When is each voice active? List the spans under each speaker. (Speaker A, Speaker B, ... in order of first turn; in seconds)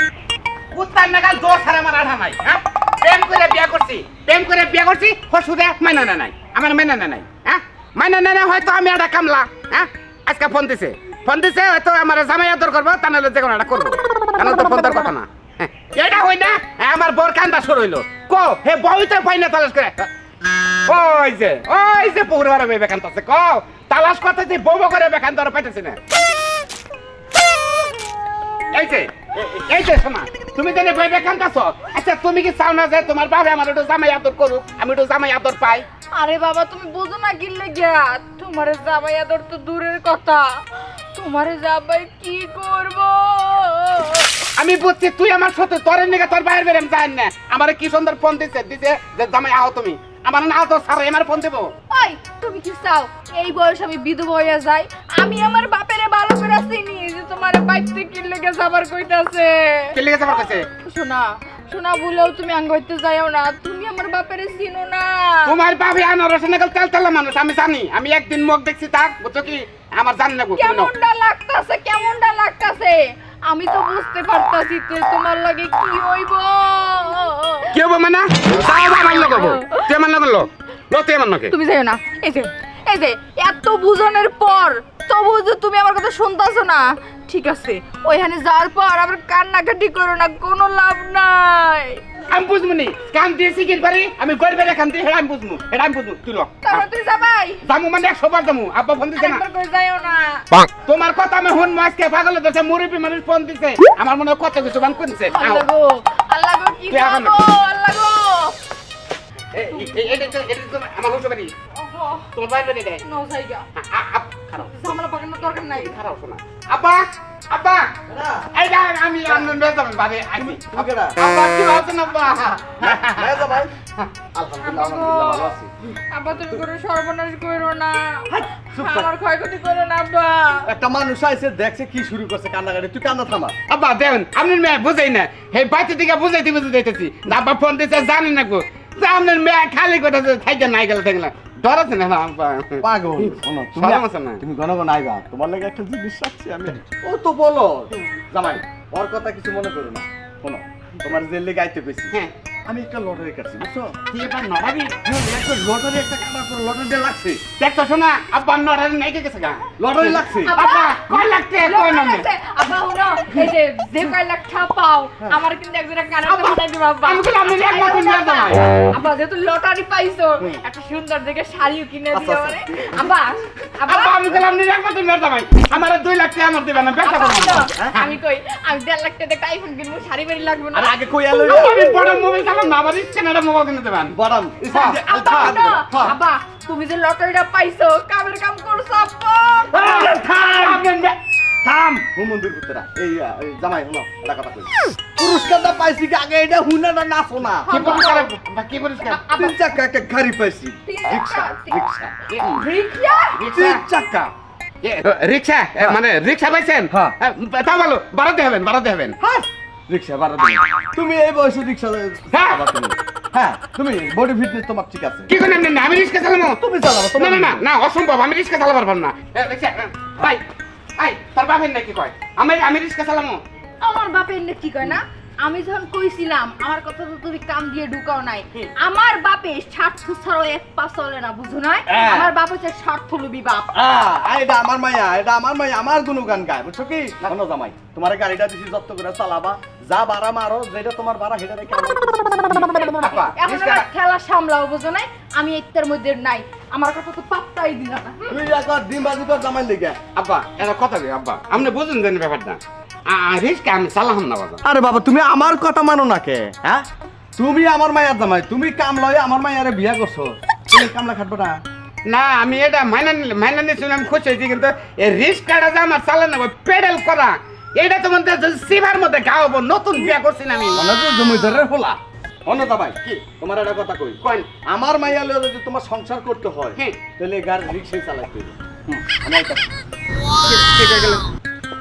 Speaker A: 0.7-20.1, 20.9-26.0, 28.7-35.9, 44.5-51.7, 59.9-60.7, 65.4-70.9, 77.7-81.5, 92.3-96.8, 97.6-99.4, 100.5-105.6, 106.9-107.4, 109.5-111.5, 112.3-113.0, 113.8-114.7, 115.7-117.9, 118.5-124.1, 133.7-144.4, 154.1-155.0, 157.6-162.2, 166.2-168.8, 173.8-178.1, 181.5-185.6, 189.7-191.2, 197.7-199.2, 202.3-202.7, 203.3-203.8, 204.8-209.2, 212.3-212.6, 215.3-216.6, 217.1-220.4, 221.0-223.4, 242.7-243.8, 250.1-254.6, 262.1-270.9, 274.2-274.5, 280.4-281.2
Speaker B: 36.1-44.3, 51.9-65.5, 70.5-77.8, 78.9-79.9, 81.5-92.0, 96.6-97.6, 99.2-100.4, 105.3-108.6, 111.7-112.3, 113.0-113.6, 114.6-115.9, 124.6-125.5, 126.1-130.7, 160.4-174.2, 177.0-180.9, 184.8-189.7, 197.6-198.3, 199.1-199.6, 200.8-201.8, 202.6-203.4, 223.8-233.7, 243.3-248.4
Speaker C: 118.1-118.5, 120.3-121.2, 122.8-123.7, 124.3-125.7, 128.3-129.1, 130.6-133.6, 142.8-153.9, 155.0-157.5, 159.8-160.5, 172.1-173.0, 180.7-181.8, 184.1-186.2, 189.7-190.9, 191.6-198.0, 199.3-202.1, 203.5-204.3, 206.9-207.1, 209.2-215.3, 216.6-217.6, 231.9-232.3, 233.7-243.2, 248.3-250.0, 254.6-256.8, 257.4-261.6, 270.7-279.6